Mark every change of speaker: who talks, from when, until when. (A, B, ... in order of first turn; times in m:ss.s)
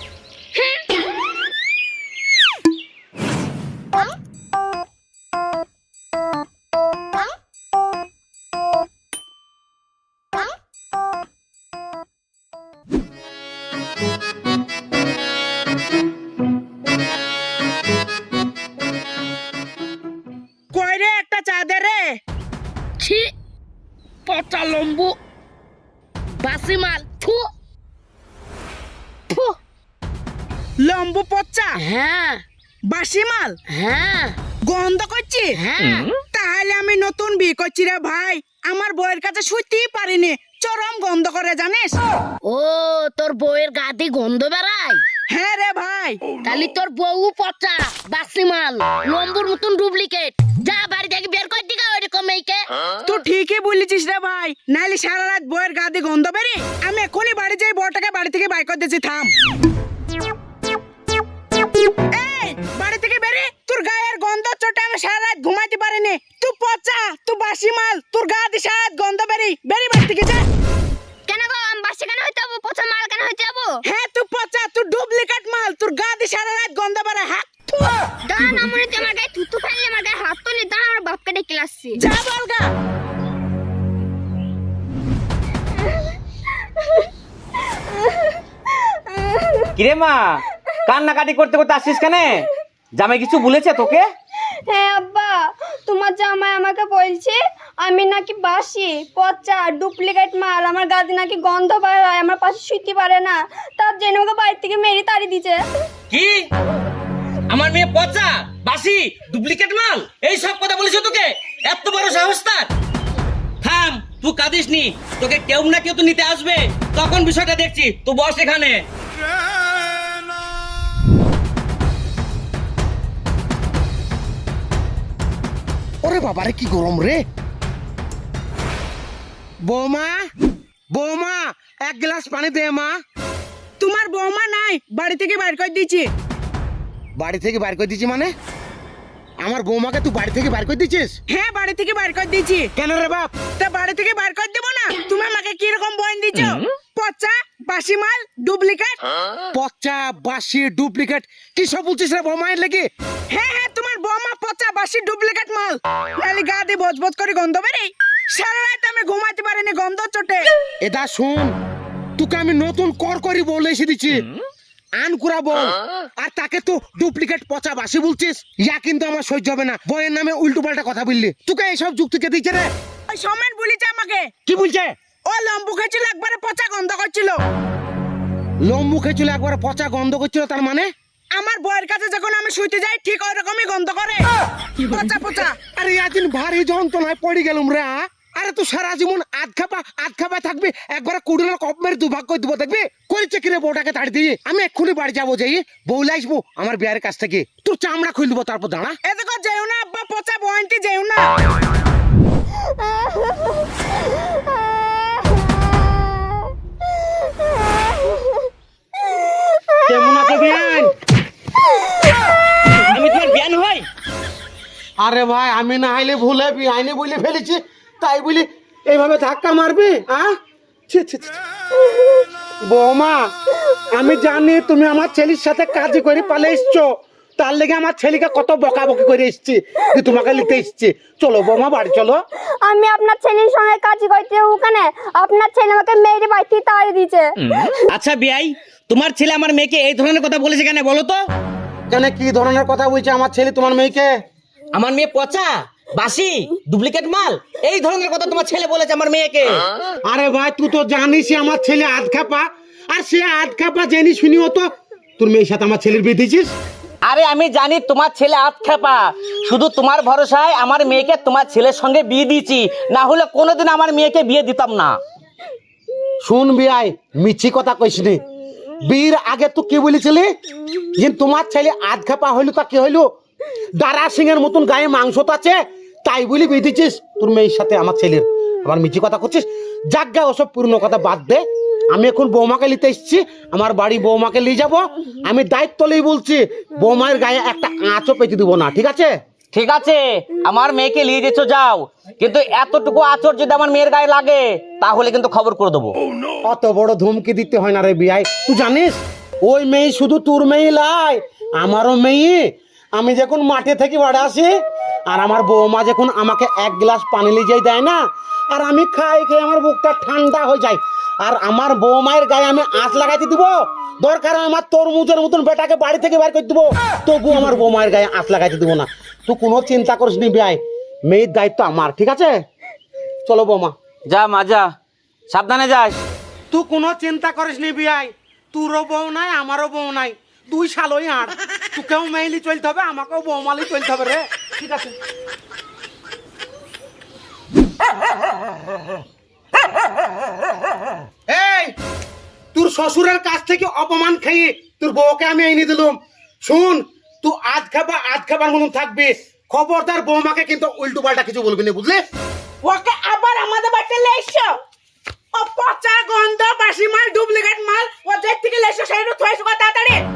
0:00.6-0:00.8 A
0:20.7-0:22.2 B
0:23.0-0:23.3 C
0:24.3-0:25.2 C
0:26.4-0:27.5 C
0:29.3-0:29.6 C
0:30.8-0:31.8 B
0:31.8-0:32.4 C
0:32.9-0:33.6 B
0:33.7-0:34.4 C
0:34.7-0:35.6 B
0:35.6-0:36.1 C
0:36.3-0:42.0 B
0:42.5-0:45.0 C
0:45.3-0:46.2 B
0:46.4-0:52.7 C
0:53.1-0:59.3 B
1:02.1-1:10.5 B
1:11.3-1:13.8 A
1:13.8-1:18.0 B
1:18.2-1:22.0 A
1:22.0-1:22.7 B
1:29.8-1:32.3 D
1:33.0-1:34.0 D
1:34.7-1:45.6 A
1:46.1-1:46.4 D
1:47.5-1:52.7 D
1:53.6-1:58.8 D
2:06.0-2:07.2 E
2:09.6-2:10.2 E
2:10.9-2:12.9 E
2:13.8-2:16.1 B
2:17.2-2:18.3 E
2:19.4-2:21.1 E
2:21.3-2:22.7 B
2:22.8-2:23.3 E
2:23.6-2:29.0 B
2:29.5-2:32.9 E
2:33.3-2:40.5 B
2:40.8-2:41.5 E
2:42.2-2:44.3 E
2:45.0-2:52.7 E
2:53.1-2:54.3 B
2:54.5-2:55.0 E
2:55.3-2:57.4 B
2:58.6-3:00.9 E
3:01.3-3:04.3 B
3:04.8-3:05.6 B
3:05.7-3:19.0 E
3:19.0-3:21.3 B
3:29.8-3:30.9 E
3:32.9-3:33.9 D
3:35.0-3:40.3 E
3:40.9-3:41.4 E
3:42.7-3:43.2 E
3:43.9-3:52.2 E
3:52.6-3:57.3 A
3:57.4-4:01.3 D
4:01.9-4:04.1 E
4:04.7-4:09.6 D
4:10.1-4:16.5 E
4:17.0-4:25.0 D
4:26.2-4:28.2 E
4:28.8-4:30.3 E
4:31.0-4:33.0 E
4:33.8-4:49.1 E
4:49.5-4:56.0 D
4:56.4-5:02.4 E
5:03.0-5:04.5 E
5:05.1-5:08.0 E
5:08.5-5:22.4 E
5:23.2-5:23.8 E
5:24.1-5:24.7 D
5:25.3-5:26.0 D
5:26.5-5:34.9 E
5:41.3-5:41.7 E
5:42.5-5:52.0 E
5:52.6-5:54.5 B
5:55.3-6:00.0 B